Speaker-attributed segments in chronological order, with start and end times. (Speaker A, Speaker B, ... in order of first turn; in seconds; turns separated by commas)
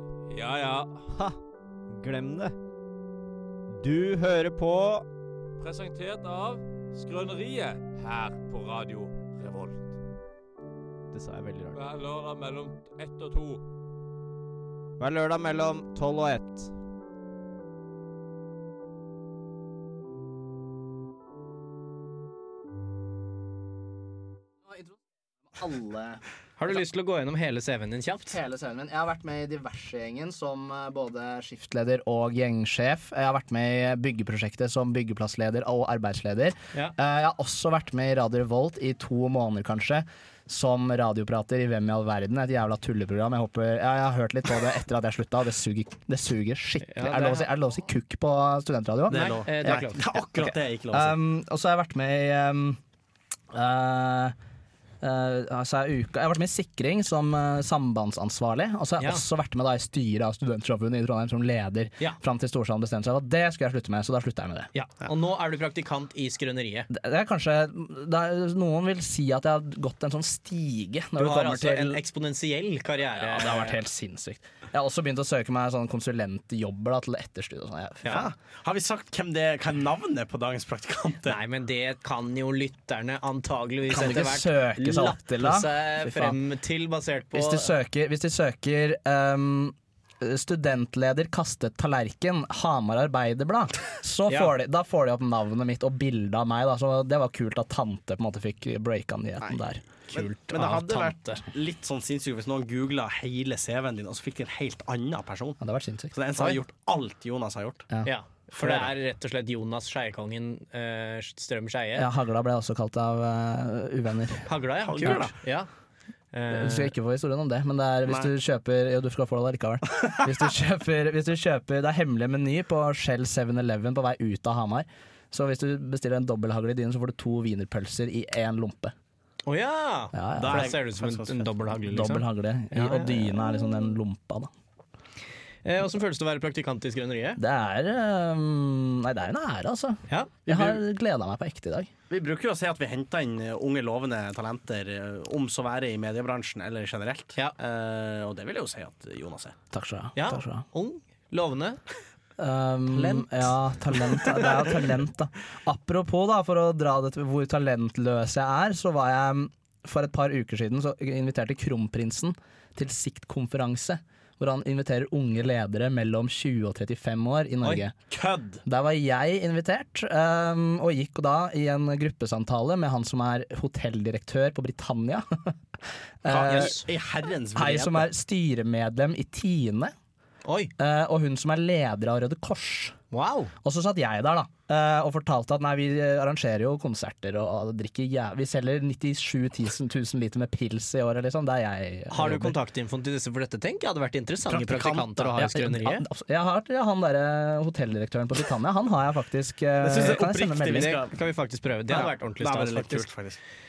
Speaker A: 0.3-1.1, Speaker B: 1.1-1.4, Speaker B: 1.9-2.5, Speaker B: 3.7-5.0, Speaker A: 5.6-9.9, Speaker B: 11.1-11.8, Speaker A: 11.7-13.6, Speaker B: 15.0-16.7, Speaker C: 25.5-26.7, Speaker D: 26.6-28.4, Speaker C: 28.3-52.8, Speaker D: 46.8-47.5, Speaker E: 49.1-51.2, Speaker D: 49.1-50.0, Speaker C: 53.5-54.3, Speaker C: 55.0-64.7, Speaker D: 64.7-66.9, Speaker C: 66.9-72.0, Speaker D: 71.2-73.8, Speaker C: 73.1-78.2, Speaker E: 78.1-81.4, Speaker D: 81.2-87.7, Speaker C: 83.9-86.4, Speaker C: 87.3-100.2, Speaker D: 94.3-94.5, Speaker E: 99.4-105.6, Speaker D: 100.1-101.4, Speaker C: 105.6-106.1, Speaker E: 106.1-107.9, Speaker C: 107.9-108.9, Speaker D: 108.0-112.1, Speaker C: 112.0-114.5, Speaker D: 114.5-115.7, Speaker E: 114.8-115.3, Speaker D: 116.3-116.9, Speaker C: 116.5-128.9, Speaker D: 129.5-133.3, Speaker C: 130.1-130.7, Speaker E: 130.4-131.5, Speaker C: 131.9-134.5, Speaker D: 135.6-137.4, Speaker C: 137.4-141.9, Speaker D: 140.1-140.8, Speaker E: 142.1-149.6, Speaker C: 149.7-150.6, Speaker D: 150.2-151.8, Speaker C: 152.4-167.9, Speaker D: 152.9-153.5, Speaker E: 168.1-168.6, Speaker C: 168.7-175.5, Speaker C: 176.2-176.8, Speaker E: 176.3-178.1, Speaker D: 176.3-176.8, Speaker C: 177.5-179.9, Speaker D: 180.4-180.7, Speaker C: 180.8-182.9, Speaker D: 183.1-183.5, Speaker C: 183.6-192.6, Speaker D: 192.1-196.0, Speaker C: 194.7-201.0, Speaker E: 199.8-201.1, Speaker D: 200.7-203.1, Speaker E: 201.9-203.4